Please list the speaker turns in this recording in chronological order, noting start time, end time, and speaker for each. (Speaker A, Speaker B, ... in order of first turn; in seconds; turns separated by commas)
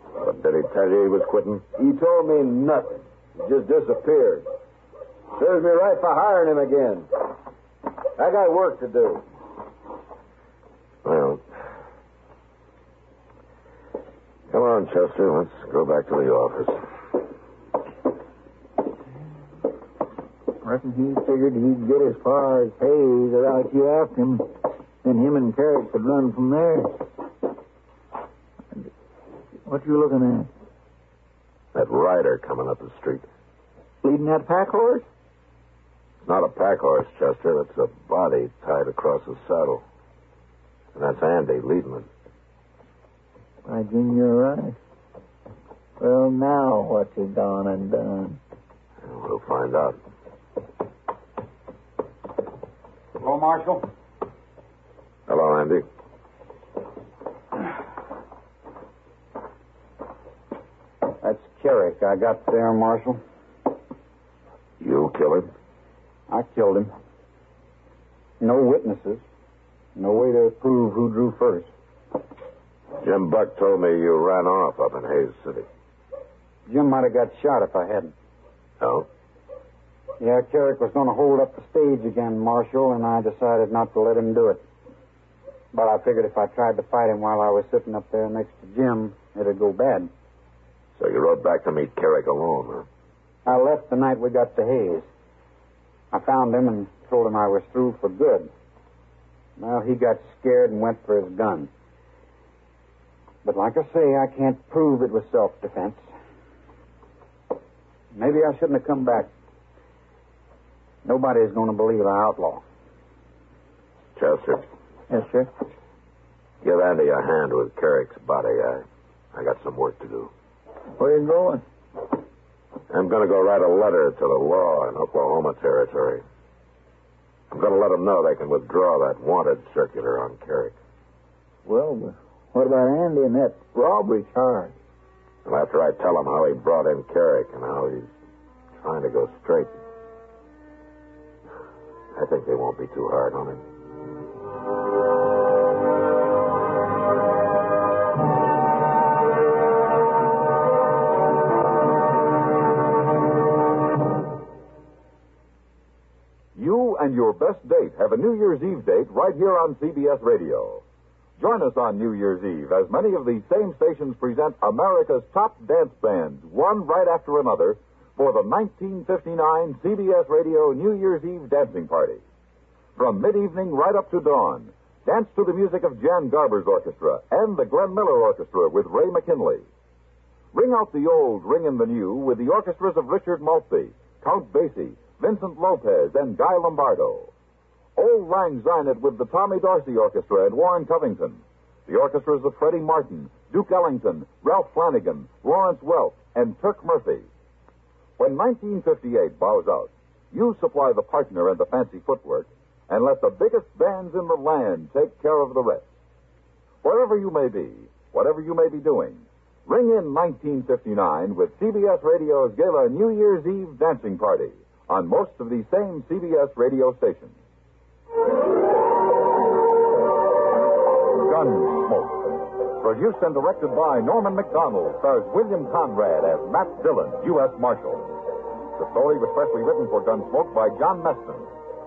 Speaker A: 0.2-1.6, Speaker B: 1.8-4.5, Speaker B: 5.3-7.1, Speaker B: 8.2-9.2, Speaker A: 11.0-11.4, Speaker A: 14.5-16.9, Speaker C: 20.6-24.5, Speaker C: 25.0-26.9, Speaker C: 29.7-30.5, Speaker A: 31.7-33.3, Speaker C: 34.0-35.0, Speaker A: 36.2-39.8, Speaker A: 41.0-42.1, Speaker C: 43.7-44.8, Speaker C: 46.0-48.4, Speaker A: 49.0-50.0, Speaker D: 53.2-53.9, Speaker A: 55.3-55.9, Speaker D: 61.2-63.2, Speaker A: 64.8-65.5, Speaker D: 66.3-66.9, Speaker D: 68.4-69.2, Speaker D: 70.0-71.7, Speaker A: 73.0-75.7, Speaker D: 76.7-78.1, Speaker A: 78.8-79.1, Speaker D: 80.2-84.6, Speaker D: 85.7-90.1, Speaker A: 91.0-92.9, Speaker D: 93.5-95.1, Speaker D: 96.1-98.5, Speaker D: 99.6-101.7, Speaker D: 103.4-106.0, Speaker D: 108.2-109.3, Speaker D: 111.0-112.6, Speaker A: 114.2-114.7, Speaker C: 115.1-115.5, Speaker A: 116.6-120.3, Speaker C: 121.0-121.6, Speaker A: 122.9-126.2, Speaker A: 127.5-130.8, Speaker C: 131.7-134.7, Speaker A: 135.4-138.1, Speaker A: 138.8-139.8, Speaker A: 142.1-143.6, Speaker E: 156.6-160.8, Speaker E: 161.4-172.2, Speaker E: 173.0-179.7, Speaker E: 180.5-187.3, Speaker E: 188.0-197.3, Speaker E: 198.2-205.9, Speaker E: 206.8-217.3, Speaker E: 221.1-228.1, Speaker E: 228.8-231.5